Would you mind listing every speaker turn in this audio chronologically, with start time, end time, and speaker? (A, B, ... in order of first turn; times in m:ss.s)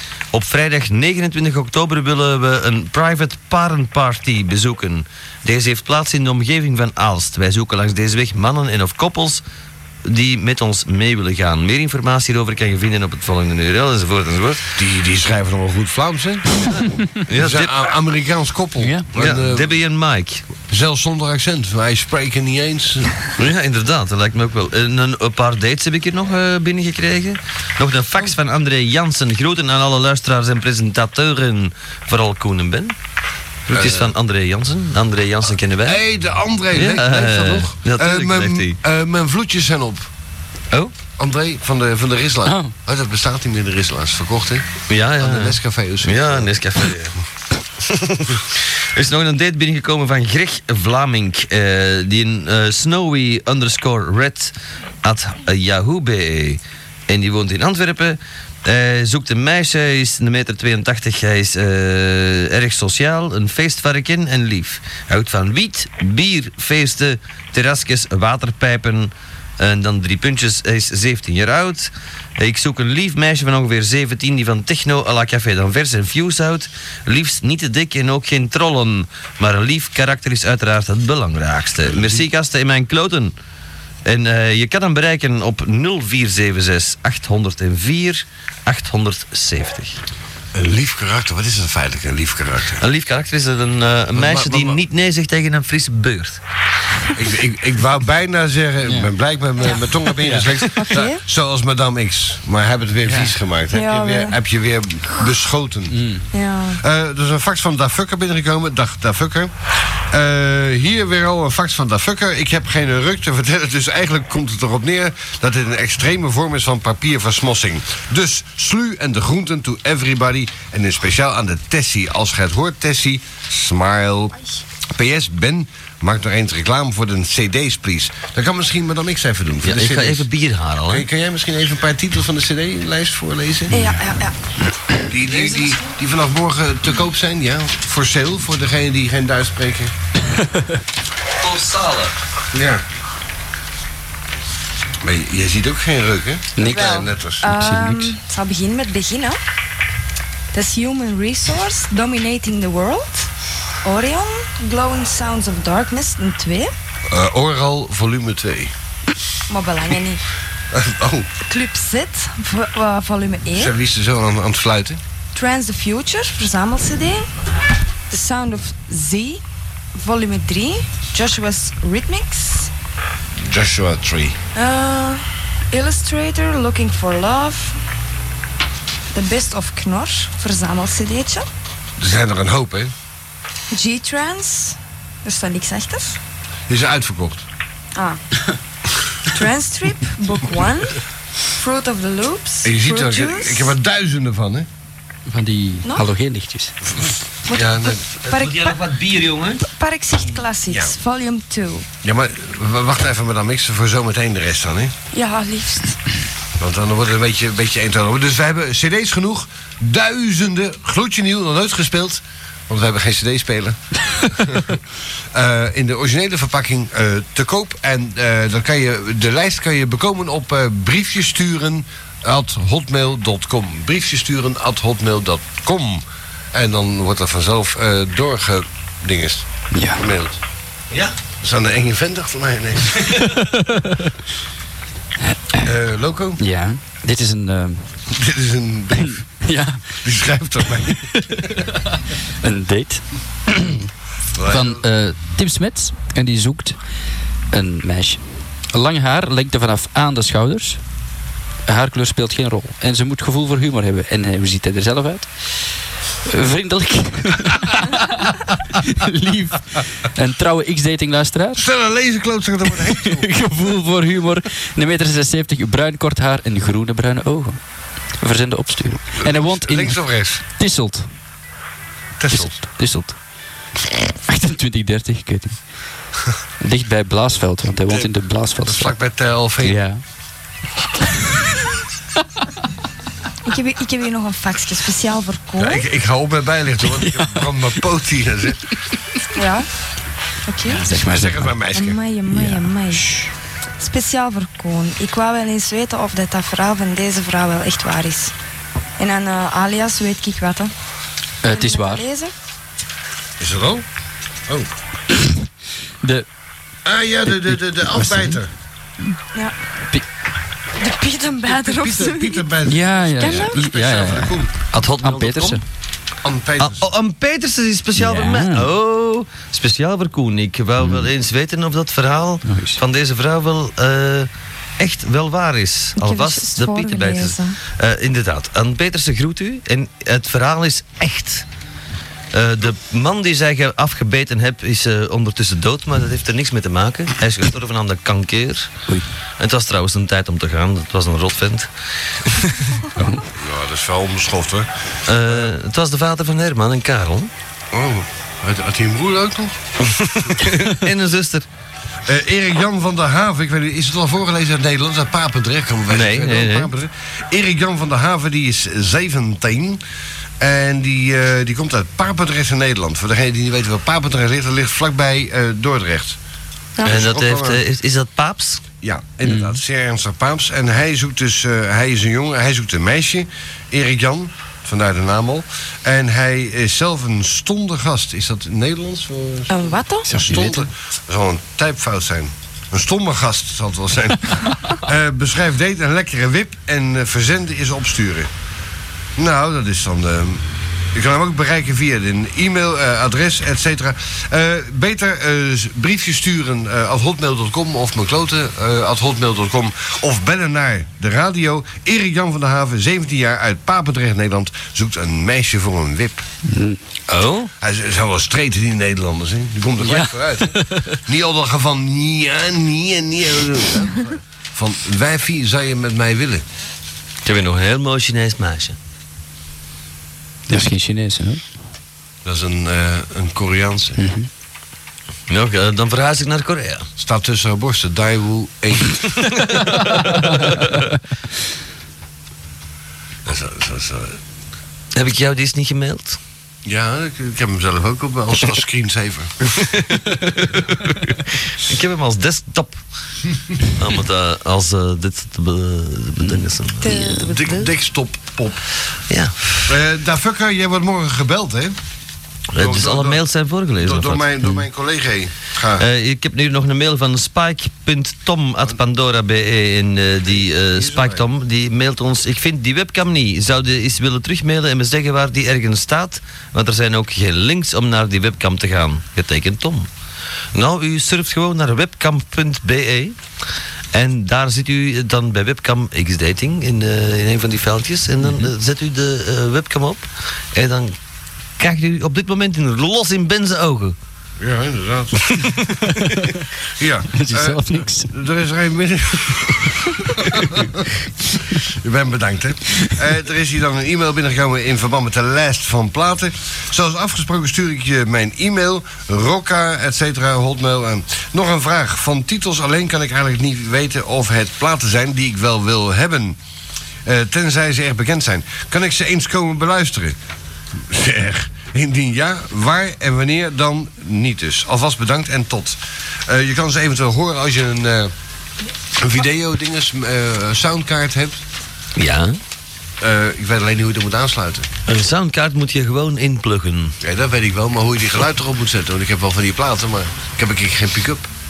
0:00.3-0:09.4 A
0:10.0-0:14.7 A
0:14.8-0:16.6 B
0:17.2-0:17.7 A
0:17.3-0:19.8 B
0:18.8-0:19.0 C
0:19.1-0:20.4 A
0:20.7-0:23.1 B
0:23.4-0:33.0 A
0:33.7-0:36.0 A
0:33.7-0:34.1 B
0:35.8-0:40.1 B
0:36.7-0:38.8 A
0:41.2-0:46.5 B
0:42.4-0:42.7 C
0:44.9-0:47.1 A
0:47.9-1:23.3 A
1:21.8-1:22.2 B
1:24.0-1:30.0 A
1:30.5-1:32.8 B
1:32.8-1:36.4 A
1:34.1-1:34.8 B
1:37.1-1:46.0 B
1:40.2-1:40.6 C
1:40.8-1:41.2 D
1:43.7-1:44.4 D
1:45.9-1:46.2 C
1:46.3-1:46.8 D
1:46.8-1:49.5 B
1:50.1-2:04.4 B
2:04.9-2:10.3 B
2:09.6-2:11.1 A
2:10.9-2:13.8 B
2:13.7-2:14.3 D
2:13.7-2:14.0 C
2:15.1-2:19.9 B
2:15.2-2:15.9 A
2:21.4-2:22.1 A
2:22.5-2:22.8 B
2:25.0-2:27.5 B
2:26.6-2:28.1 C
2:26.6-2:29.4 D
2:30.5-2:33.3 D
2:33.8-2:36.7 D
2:37.1-2:38.7 B
2:39.5-2:40.2 D
2:40.7-2:41.3 B
2:41.4-2:43.7 D
2:43.5-2:45.0 B
2:45.3-2:47.3 D
2:48.1-2:49.4 D
2:49.9-2:52.7 D
2:53.4-2:54.4 B
2:54.5-2:57.8 D
2:59.1-3:01.5 D
3:02.0-3:02.9 B
3:03.7-3:06.2 D
3:06.7-3:07.4 B
3:09.3-3:11.0 D
3:11.6-3:13.7 D
3:12.6-3:14.7 B
3:15.3-3:16.7 C
3:17.0-3:18.0 B
3:17.5-3:18.8 D
3:18.2-3:19.6 A
3:19.6-3:21.8 D
3:22.0-3:24.9 B
3:25.1-3:26.0 D
3:26.6-3:33.8 B
3:34.4-3:34.8 B
3:35.3-3:50.4 B
3:49.7-3:50.0 C
3:51.4-3:53.1 B
3:53.4-3:54.0 C
3:55.6-3:56.4 B
3:56.4-3:57.8 C
3:58.1-3:59.2 B
3:59.0-3:59.8 C
4:00.0-4:01.1 B
4:01.1-4:01.8 C
4:02.4-4:03.8 C
4:04.3-4:04.8 B
4:04.5-4:06.8 C
4:07.5-4:08.2 C
4:08.7-4:10.8 C
4:11.7-4:15.3 C
4:16.3-4:21.6 C
4:21.6-4:23.3 B
4:23.0-4:27.6 C
4:28.2-4:30.0 C
4:29.2-4:30.4 B
4:30.5-4:31.1 C
4:32.2-4:32.6 B
4:32.3-4:33.2 C
4:34.3-4:35.6 C
4:36.6-4:38.9 C
4:38.6-4:39.8 B
4:39.6-4:40.0 C
4:43.4-4:45.8 D
4:45.6-4:48.6 B
4:46.9-4:47.5 C
4:49.3-4:49.7 D
4:50.4-4:50.9 D
4:50.6-4:51.7 C
4:50.9-4:52.0 B
4:51.7-4:53.1 D
4:52.3-4:53.3 C
4:53.8-4:58.3 D
4:59.0-5:00.7 D
5:01.4-5:02.0 C
5:01.5-5:02.3 D
5:03.4-5:03.8 B
5:05.1-5:05.4 C
5:06.8-5:08.5 B
5:07.9-5:08.4 C
5:10.8-5:12.5 D
5:11.5-5:14.5 B
5:12.6-5:14.4 C
5:13.2-5:13.6 D
5:14.7-5:15.6 A
5:15.0-5:15.6 C
5:16.2-5:16.9 B
5:16.6-5:31.4 A
5:17.9-5:18.7 C
5:20.8-5:21.1 C
5:22.4-5:22.8 C
5:26.0-5:27.6 D
5:32.3-5:38.7 A
5:39.4-5:41.7 A
5:42.2-5:42.8 A
5:43.0-5:43.2 C
5:43.4-5:44.7 B
5:45.1-5:47.3 A
5:45.2-5:45.5 B
5:47.7-5:49.6 B
5:49.9-5:51.5 A
5:52.0-5:59.8 B
5:55.9-5:56.7 A
6:00.4-6:06.2 B
6:06.8-6:07.6 B
6:06.8-6:08.6 A
6:08.8-6:28.3 B
6:09.2-6:09.6 C
6:19.5-6:20.6 D
6:20.2-6:20.6 C
6:29.2-6:30.4 B
6:30.9-6:46.2 B
6:46.5-6:46.8 C
6:47.1-6:47.5 A
6:47.6-6:56.4 B
6:49.8-6:51.0 C
6:57.2-6:58.8 A
7:00.5-7:01.5 C
7:02.2-7:04.0 B
7:04.0-7:04.3 C
7:05.3-7:06.9 A
7:07.0-7:09.1 B
7:09.2-7:09.7 A
7:10.1-7:10.6 C
7:13.2-7:14.2 B
7:14.9-7:16.2 A
7:16.6-7:19.4 B
7:19.4-7:22.8 A
7:23.7-7:27.7 A
7:26.8-7:27.6 D
7:27.2-7:28.6 B
7:29.1-7:29.7 A
7:29.7-7:31.8 B
7:32.5-7:34.2 A
7:32.6-7:35.8 B
7:35.8-7:49.9 A
7:40.3-7:41.3 B
7:50.5-7:53.2 A
7:53.9-8:01.0 A
8:01.6-8:04.0 A
8:04.4-8:05.6 B
8:06.0-8:06.3 C
8:06.8-8:10.9 B
8:07.1-8:08.1 C
8:11.6-8:26.4 B
8:27.0-8:30.2 B
8:30.7-8:38.1 B
8:38.9-8:41.4 B
8:42.0-8:42.4 A
8:43.0-8:44.7 B
8:44.9-8:47.0 A
8:47.0-8:51.3 B